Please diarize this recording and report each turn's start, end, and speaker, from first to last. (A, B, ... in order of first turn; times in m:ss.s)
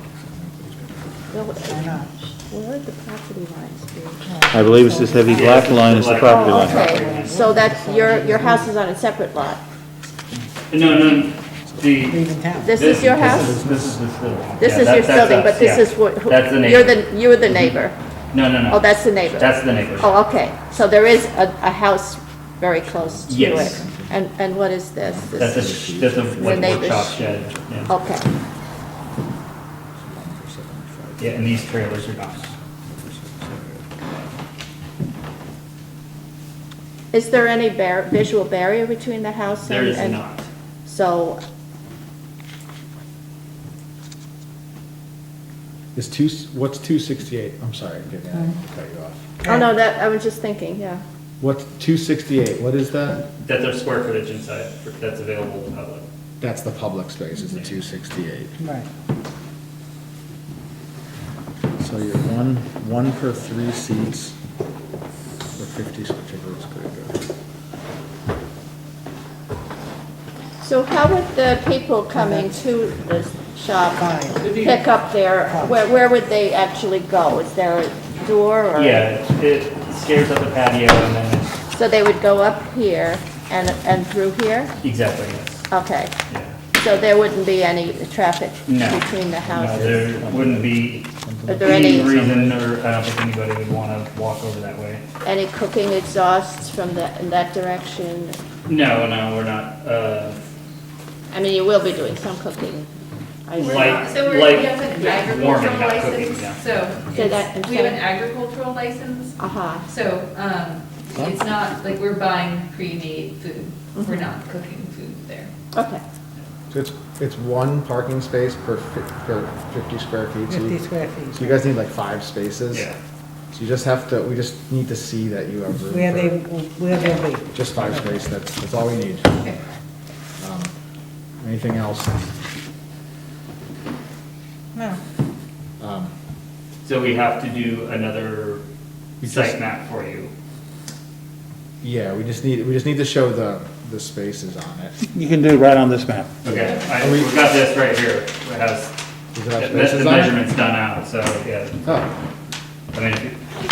0:00.2-0:01.4 A
0:01.3-0:04.2 B
0:01.7-0:02.1 C
0:04.3-0:05.2 C
0:04.5-0:06.8 D
0:05.3-0:07.5 E
0:06.2-0:09.6 B
0:06.8-0:08.6 C
0:10.7-0:12.2 E
0:12.1-0:12.8 C
0:12.6-0:13.6 B
0:12.8-0:17.0 E
0:12.8-0:15.5 A
0:14.6-0:18.0 B
0:18.3-0:20.1 E
0:18.7-0:25.7 B
0:22.8-0:24.2 A
0:23.3-0:23.8 E
0:25.0-0:28.0 A
0:25.4-0:27.9 E
0:26.4-0:27.2 B
0:27.9-0:28.3 B
0:30.0-0:33.9 A
0:31.2-0:32.5 E
0:37.1-0:40.2 B
0:39.6-0:40.5 E
0:40.8-0:41.4 B
0:46.0-0:49.2 A
0:49.4-0:51.0 B
0:51.4-0:53.2 A
0:53.4-0:56.0 E
0:56.4-0:58.5 A
0:58.6-0:58.9 C
1:01.8-1:04.4 A
1:05.6-1:07.2 A
1:10.6-1:19.1 B
1:12.1-1:12.4 C
1:14.0-1:14.5 C
1:18.8-1:21.5 E
1:21.7-1:24.7 B
1:24.8-1:25.6 E
1:25.7-1:26.1 B
1:26.8-1:30.2 B
1:28.7-1:31.1 E
1:31.5-1:32.1 B
1:31.6-1:35.0 E
1:35.2-1:38.4 B
1:38.7-1:40.4 E
1:41.3-1:42.9 B
1:43.5-1:44.2 B
1:43.6-1:46.6 E
1:43.6-1:55.5 F
1:44.9-1:45.3 B
1:47.1-1:48.0 B
1:49.4-1:49.9 B
1:54.0-1:54.3 B
1:55.7-1:56.0 B
1:56.7-2:00.8 A
2:00.5-2:01.6 C
2:01.3-2:02.9 A
2:02.7-2:03.0 E
2:03.5-2:06.4 A
2:05.9-2:07.7 C
2:07.5-2:09.4 A
2:10.4-2:10.7 A
2:11.4-2:12.2 A
2:15.8-2:16.1 A
2:16.8-2:18.6 E
2:19.2-2:19.6 A
2:19.2-2:20.3 E
2:21.8-2:25.0 A
2:25.1-2:26.3 D
2:26.4-2:29.0 E
2:26.5-2:27.4 A
2:29.3-2:30.4 A
2:29.6-2:31.8 E
2:31.8-2:32.1 A
2:32.9-2:33.5 E